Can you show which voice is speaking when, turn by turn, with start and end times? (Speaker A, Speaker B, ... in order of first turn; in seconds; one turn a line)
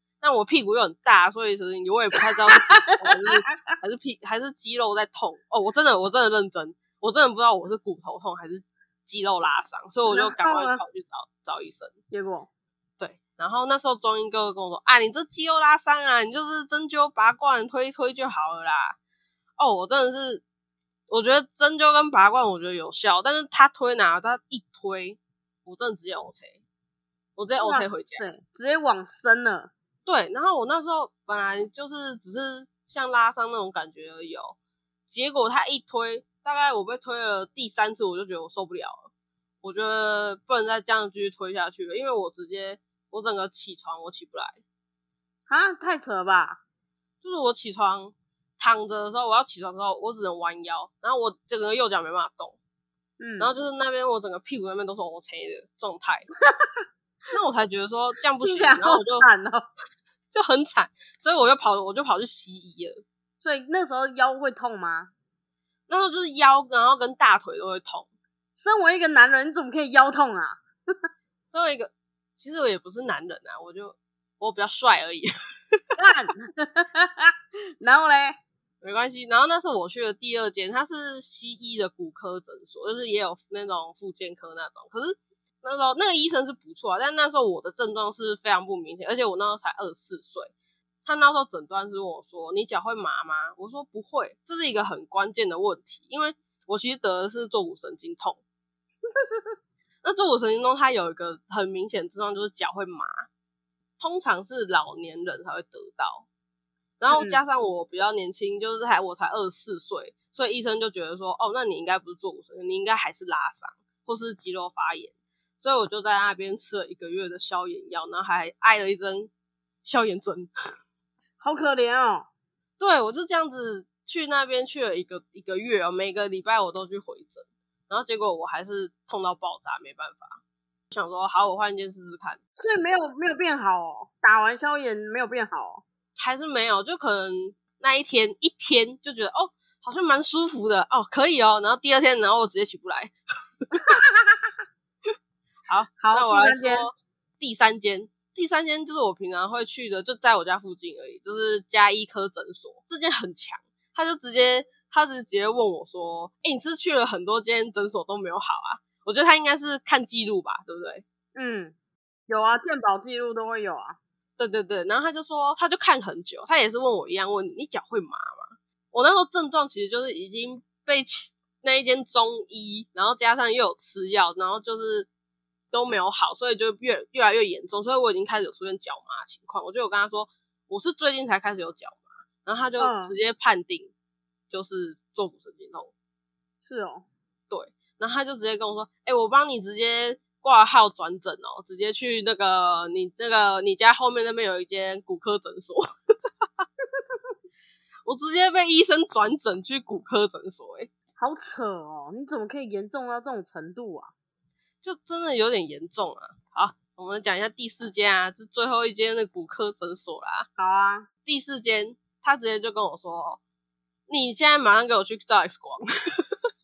Speaker A: 0.2-11.9
Speaker B: 2.5-3.4
Speaker B: 10.1-10.8
Speaker B: 12.1-12.5
Speaker A: 13.0-19.0
Speaker A: 19.6-20.4
Speaker A: 21.1-26.6
Speaker A: 27.4-28.2
Speaker B: 27.6-29.7
Speaker A: 30.1-34.6
Speaker A: 35.1-39.1
Speaker A: 39.6-44.6
Speaker B: 45.5-46.6
Speaker A: 47.2-52.6
Speaker B: 53.2-53.5
Speaker A: 53.4-56.3
Speaker A: 57.3-59.3
Speaker B: 58.4-59.7
Speaker A: 60.3-63.0
Speaker B: 63.4-65.1
Speaker A: 65.9-68.1
Speaker B: 68.5-70.6
Speaker A: 71.5-76.0
Speaker B: 76.0-78.4
Speaker A: 78.8-90.5
Speaker A: 91.0-98.4
Speaker A: 100.0-103.3
Speaker A: 104.0-106.3
Speaker A: 107.0-119.3
Speaker B: 107.1-107.4
Speaker A: 119.8-120.5
Speaker B: 121.4-122.3
Speaker A: 122.8-130.4
Speaker A: 130.9-132.4
Speaker B: 132.6-135.8
Speaker A: 136.2-143.2
Speaker B: 143.7-144.2
Speaker A: 145.7-161.0
Speaker B: 146.0-146.9
Speaker B: 161.3-161.8
Speaker B: 162.3-164.0
Speaker A: 164.4-175.1
Speaker A: 175.7-183.9
Speaker B: 182.8-183.2
Speaker A: 184.5-185.9
Speaker B: 186.6-187.1
Speaker A: 187.5-195.9
Speaker A: 198.1-200.9
Speaker B: 201.2-204.1
Speaker A: 204.8-210.5
Speaker B: 210.6-211.1
Speaker A: 211.3-213.4
Speaker A: 214.1-215.9